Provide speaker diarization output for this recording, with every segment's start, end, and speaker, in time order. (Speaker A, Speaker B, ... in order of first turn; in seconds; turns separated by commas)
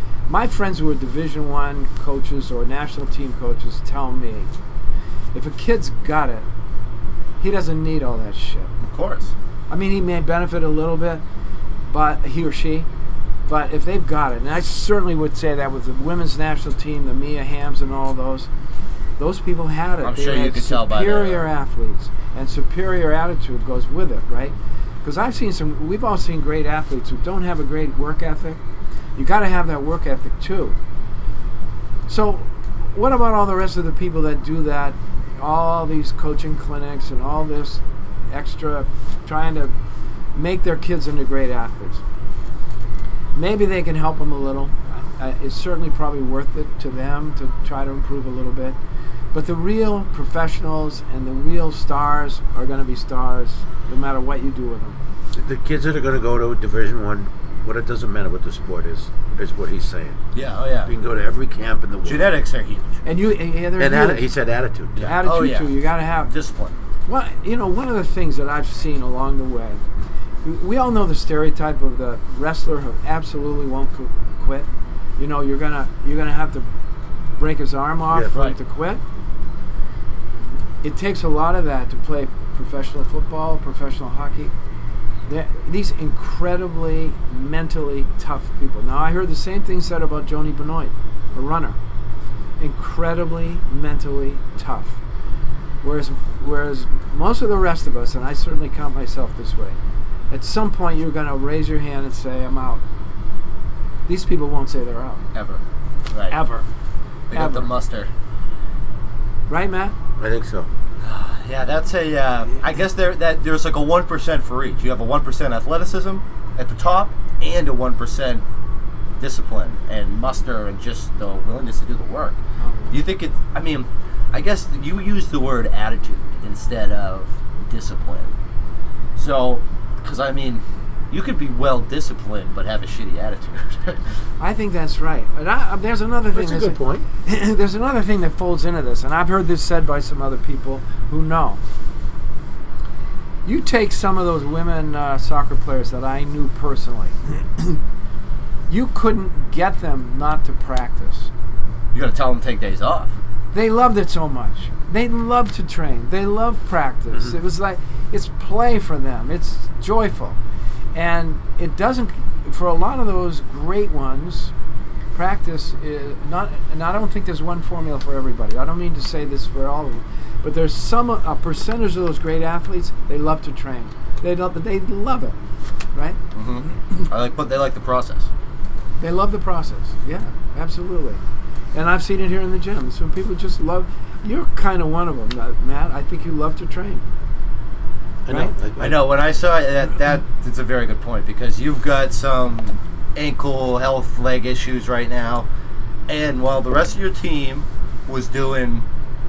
Speaker A: 0.3-4.5, Speaker A: 5.3-6.5, Speaker A: 7.4-8.7, Speaker B: 8.8-9.3, Speaker A: 9.7-11.2, Speaker A: 11.9-12.9, Speaker A: 13.5-18.5, Speaker A: 19.2-28.6, Speaker B: 20.0-21.5, Speaker A: 29.2-30.8, Speaker A: 32.1-39.7, Speaker A: 40.4-42.0, Speaker A: 43.3-48.8, Speaker A: 49.3-55.0, Speaker C: 55.3-60.2, Speaker B: 60.4-60.9, Speaker C: 60.9-62.4, Speaker B: 62.0-63.0, Speaker A: 63.0-64.3, Speaker C: 63.8-65.2, Speaker B: 65.0-66.8, Speaker A: 65.0-66.3, Speaker A: 67.1-69.9, Speaker A: 70.4-76.7, Speaker A: 77.4-79.0, Speaker A: 80.8-84.5, Speaker A: 85.3-91.8, Speaker A: 92.6-95.0, Speaker A: 95.8-99.8, Speaker A: 100.3-102.8, Speaker A: 104.1-105.2, Speaker B: 105.3-106.4, Speaker A: 106.3-106.7, Speaker B: 107.3-108.1, Speaker A: 107.3-107.7, Speaker A: 109.5-110.0, Speaker C: 110.2-110.7, Speaker B: 111.0-118.4, Speaker B: 119.2-122.4, Speaker A: 122.6-123.0, Speaker B: 122.9-128.3, Speaker B: 129.2-134.0, Speaker A: 134.4-141.6, Speaker C: 136.3-137.1, Speaker A: 143.4-147.8, Speaker A: 148.7-151.3, Speaker B: 151.9-153.1, Speaker A: 153.5-160.4, Speaker A: 160.9-164.5, Speaker A: 165.1-175.4, Speaker A: 175.9-176.2, Speaker B: 176.3-178.3, Speaker A: 179.0-181.2, Speaker A: 181.7-187.1, Speaker C: 188.2-189.1, Speaker B: 188.8-195.5, Speaker B: 196.1-198.8